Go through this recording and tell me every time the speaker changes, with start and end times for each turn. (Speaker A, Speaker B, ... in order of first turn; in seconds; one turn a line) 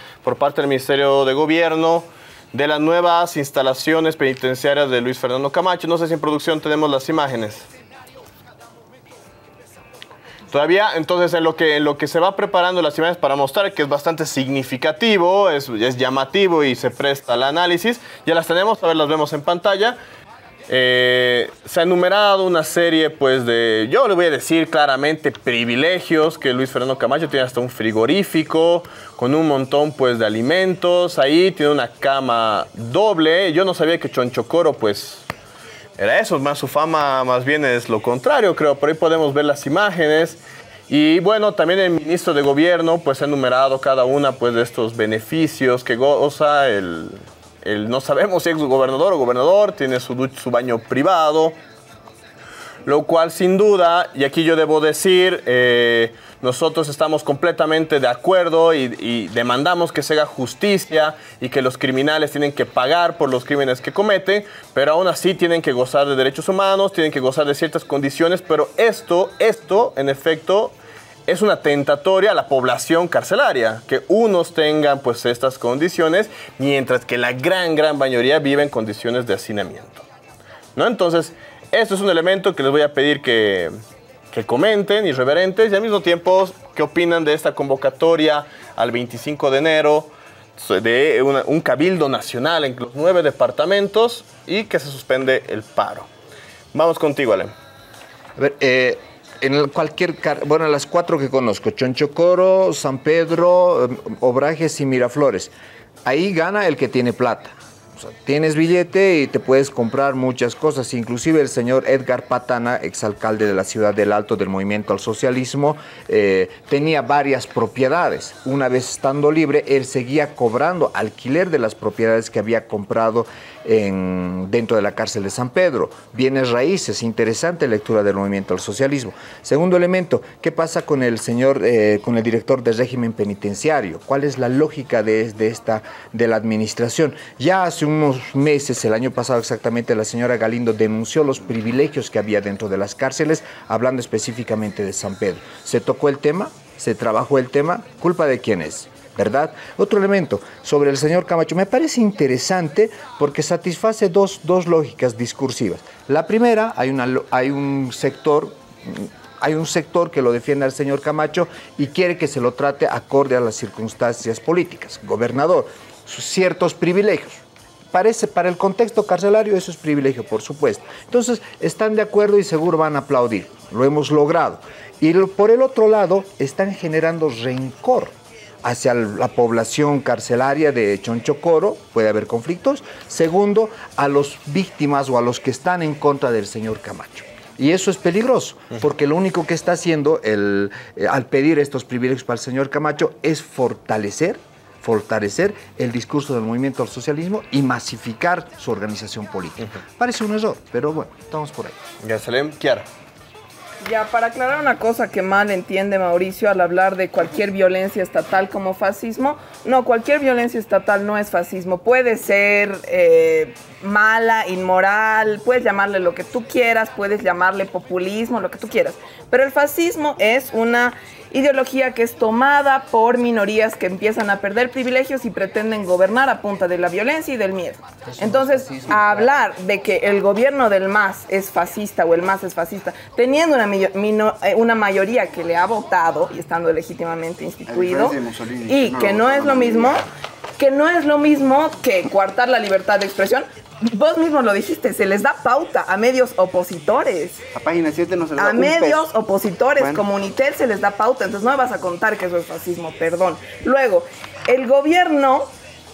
Speaker A: 0.2-7.7
Speaker A: 10.5-20.0
Speaker A: 20.7-35.3
Speaker A: 36.0-51.6
Speaker A: 52.9-70.8
Speaker A: 71.3-80.0
Speaker A: 80.8-83.7
Speaker A: 84.3-96.1
Speaker A: 96.7-97.5
Speaker B: 98.4-105.5
Speaker B: 106.0-201.8
Speaker A: 202.0-202.9
Speaker C: 203.8-240.0
Speaker B: 228.0-229.4
Speaker D: 237.7-240.0
Speaker C: 240.6-247.4
Speaker D: 247.5-249.1
Speaker C: 248.3-255.5
Speaker D: 249.8-250.0